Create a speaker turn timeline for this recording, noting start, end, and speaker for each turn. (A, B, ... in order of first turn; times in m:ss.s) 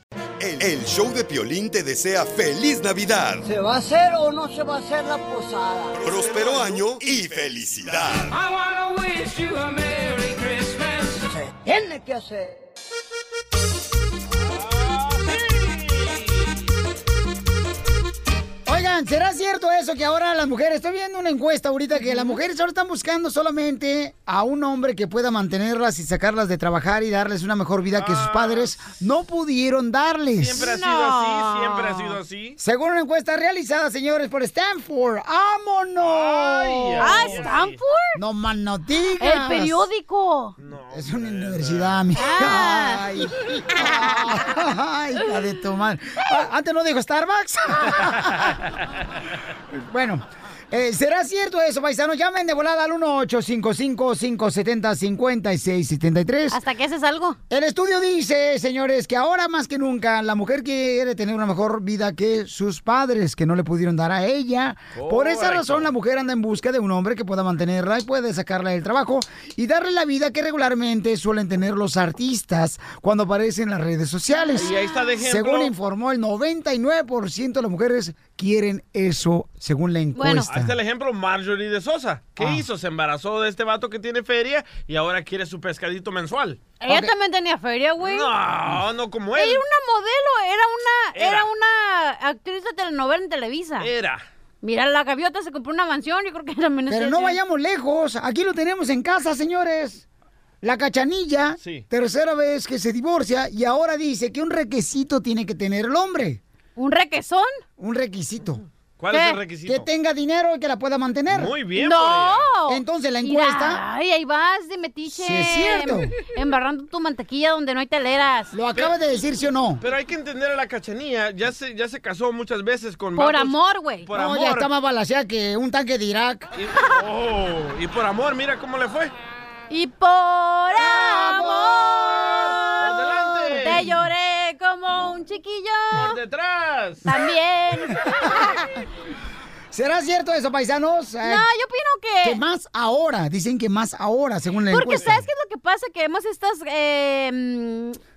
0:00.4-0:03.4 A
0:03.4-0:05.9 B
0:06.0-0:08.3 A
0:06.2-0:06.8 C
0:08.3-0:11.3 D
0:11.3-0:12.6 B
0:14.3-0:16.6 C
0:18.6-0:30.6 E
0:22.0-0:22.4 F
0:27.9-0:28.9 C
0:30.4-0:32.6 C
0:30.5-0:32.2 F
0:32.6-0:37.5 E
0:36.0-0:37.8 C
0:37.0-0:38.2 F
0:38.1-0:39.8 E
0:39.2-0:40.6 F
0:40.6-0:42.0 C
0:40.9-0:48.6 E
0:42.1-0:44.5 F
0:49.7-0:56.6 E
0:56.5-0:57.4 F
0:57.5-1:20.8 E
1:04.9-1:05.9 C
1:14.3-1:15.2 F
1:14.6-1:15.7 C
1:20.1-1:20.5 F
1:20.5-1:26.7 C
1:22.4-1:22.6 E
1:26.8-1:28.3 F
1:28.0-1:29.6 C
1:29.3-1:33.9 F
1:31.1-1:31.5 C
1:33.8-1:34.2 C
1:34.6-1:37.4 F
1:36.9-1:40.0 E
1:40.6-1:46.4 E
1:41.6-1:41.8 C
1:46.8-1:47.6 F
1:47.8-1:48.6 E
1:49.0-1:49.8 C
1:49.1-1:49.4 F
1:49.6-1:51.5 E
1:51.3-1:52.5 C
1:51.7-1:58.6 F
1:52.7-1:53.8 E
1:55.1-1:56.2 E
1:58.5-1:59.8 E
1:59.8-2:03.6 C
2:03.2-2:04.1 F
2:04.1-2:04.7 C
2:04.1-2:06.5 E
2:06.6-2:09.1 C
2:09.7-2:16.2 F
2:10.8-2:12.5 E
2:12.8-2:13.9 C
2:15.9-2:17.0 C
2:17.0-2:18.6 F
2:17.9-2:18.6 E
2:19.7-2:21.4 E
2:21.2-2:22.4 F
2:22.2-2:25.2 E
2:24.7-2:28.0 F